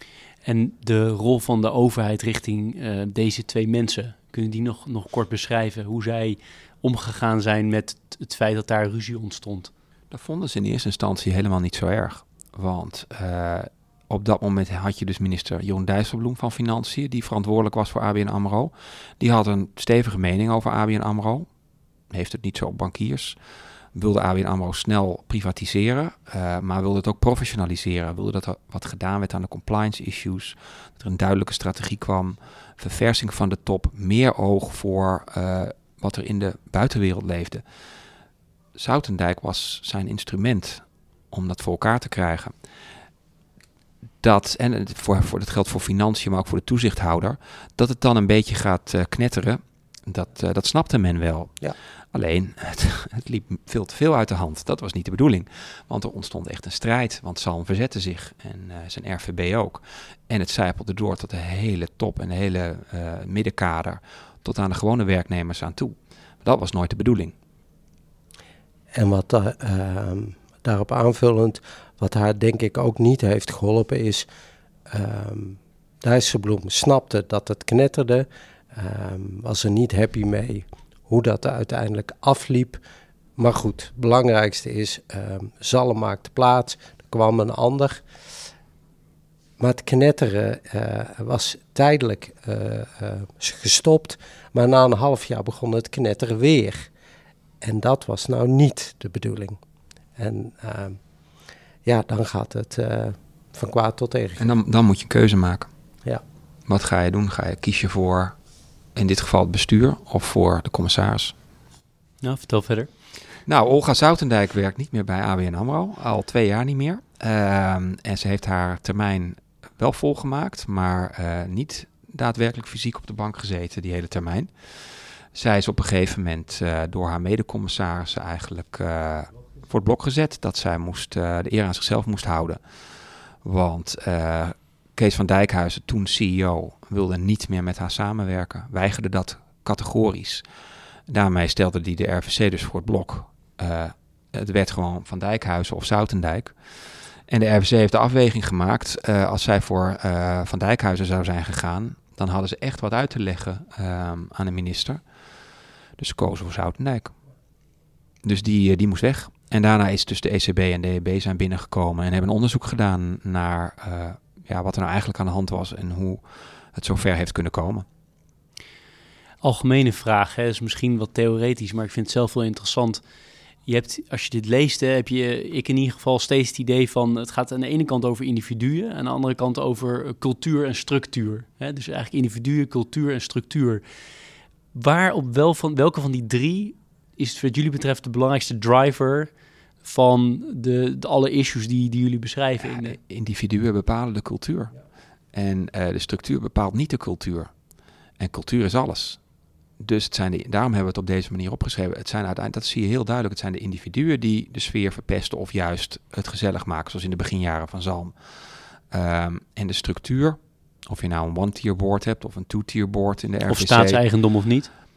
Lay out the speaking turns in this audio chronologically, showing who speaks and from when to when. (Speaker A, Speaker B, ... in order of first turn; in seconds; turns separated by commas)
Speaker A: 0.5-9.7, Speaker B: 10.1-21.5, Speaker B: 22.1-23.4, Speaker B: 23.9-37.6, Speaker B: 38.8-42.5, Speaker B: 44.2-51.6, Speaker B: 52.1-67.3, Speaker C: 69.0-74.3, Speaker C: 74.9-82.8, Speaker C: 83.4-88.0, Speaker C: 89.6-96.9, Speaker C: 97.6-99.6, Speaker C: 100.2-101.0, Speaker C: 101.8-104.4, Speaker B: 104.4-105.7, Speaker B: 106.7-108.3, Speaker B: 109.0-111.3, Speaker A: 112.2-112.9, Speaker B: 113.5-132.6, Speaker B: 133.4-140.4, Speaker B: 141.1-146.6, Speaker B: 147.3-155.0, Speaker B: 156.0-157.1, Speaker B: 158.2-166.2, Speaker B: 166.7-167.9, Speaker A: 169.4-173.0, Speaker A: 173.7-183.8, Speaker A: 184.7-189.3, Speaker A: 189.8-193.0, Speaker B: 192.8-194.8, Speaker B: 195.3-197.5, Speaker B: 198.2-199.2, Speaker B: 199.8-208.1, Speaker B: 208.9-214.0, Speaker A: 213.5-214.7